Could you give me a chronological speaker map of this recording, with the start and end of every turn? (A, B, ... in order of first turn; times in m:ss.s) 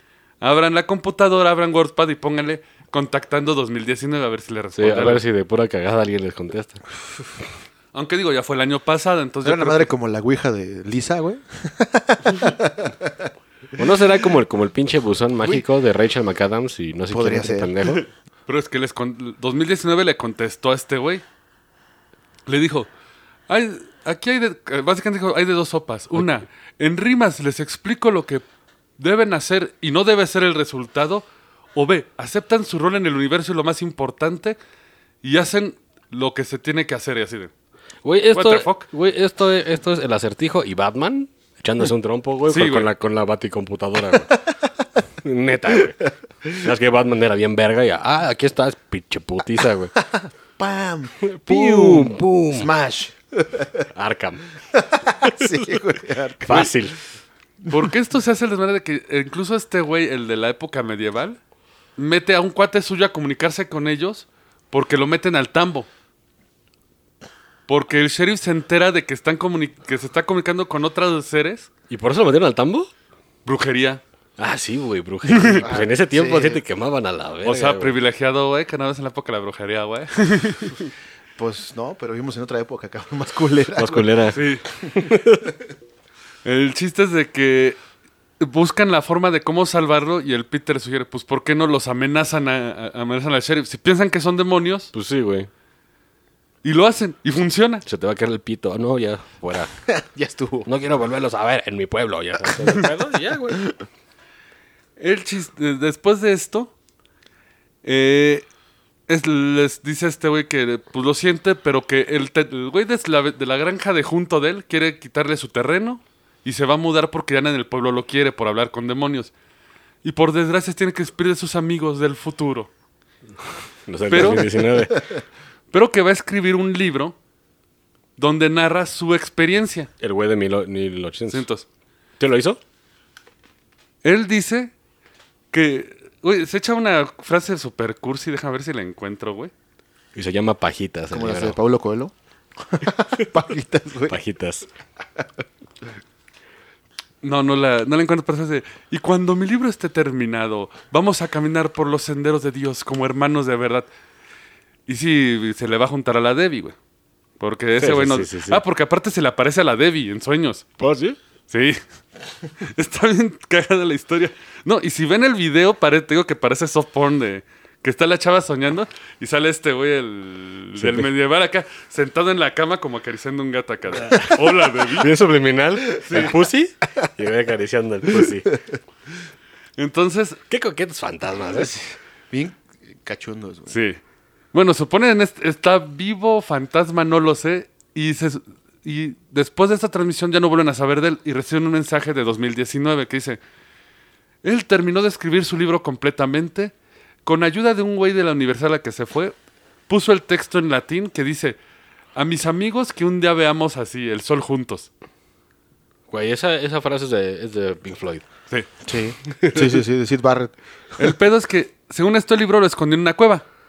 0:00.4-0:05.2 A
0:04.8-0:06.8 B
0:07.9-0:09.9 A
0:09.4-0:13.3 C
0:13.8-0:18.0 B
0:17.1-0:17.7 C
0:17.9-0:21.2 A
0:22.5-0:22.9 A
0:23.5-0:28.4 A
0:29.0-0:34.6 A
0:35.2-0:37.5 A
0:38.0-0:44.3 B
0:38.3-0:38.9 A
0:42.5-0:42.9 A
0:45.2-0:49.9 B
0:50.0-0:53.8 C
0:51.2-0:52.7 B
0:53.9-0:54.4 B
0:54.7-0:56.8 C
0:55.2-0:55.8 B
0:56.4-0:57.0 B
0:57.7-1:01.4 A
1:02.0-1:05.9 A
1:07.7-1:11.7 A
1:11.9-1:12.9 B
1:13.4-1:14.0 A
1:14.4-1:18.0 B
1:15.3-1:15.6 A
1:15.6-1:16.6 C
1:17.4-1:20.9 A
1:21.4-1:24.1 C
1:23.7-1:25.5 B
1:24.3-1:24.6 A
1:26.4-1:27.8 A
1:28.4-1:34.9 A
1:34.9-1:35.5 B
1:36.6-1:37.8 A
1:37.8-1:39.7 B
1:39.9-1:40.7 C
1:40.6-1:43.6 B
1:45.0-1:46.7 A
1:47.8-1:48.5 A
1:49.1-1:59.3 A
2:00.0-2:02.7 A
2:03.9-2:05.0 B
2:04.1-2:04.5 A
2:05.7-2:07.2 A
2:08.2-2:09.9 A
2:10.0-2:11.5 B
2:11.3-2:11.7 A
2:12.2-2:12.6 B
2:14.0-2:14.7 A
2:15.5-2:19.5 A
2:20.2-2:21.6 B
2:21.1-2:24.2 C
2:24.1-2:24.7 B
2:27.2-2:33.9 A
2:34.9-2:36.8 A
2:37.4-2:40.6 A
2:37.8-2:38.6 B
2:40.8-2:41.2 B
2:41.5-2:41.8 A
2:42.6-2:55.1 A
2:50.8-2:51.1 B
2:54.1-2:58.5 B
2:56.0-2:56.3 A
2:59.8-3:00.4 A
3:00.5-3:01.7 B
3:01.5-3:03.7 C
3:03.7-3:04.0 A
3:04.5-3:13.4 A
3:14.4-3:16.7 A
3:17.2-3:19.4 A
3:19.9-3:21.6 A
3:22.2-3:24.9 A
3:26.1-3:28.2 B
3:28.9-3:30.5 C
3:29.4-3:29.8 B
3:31.0-3:33.4 A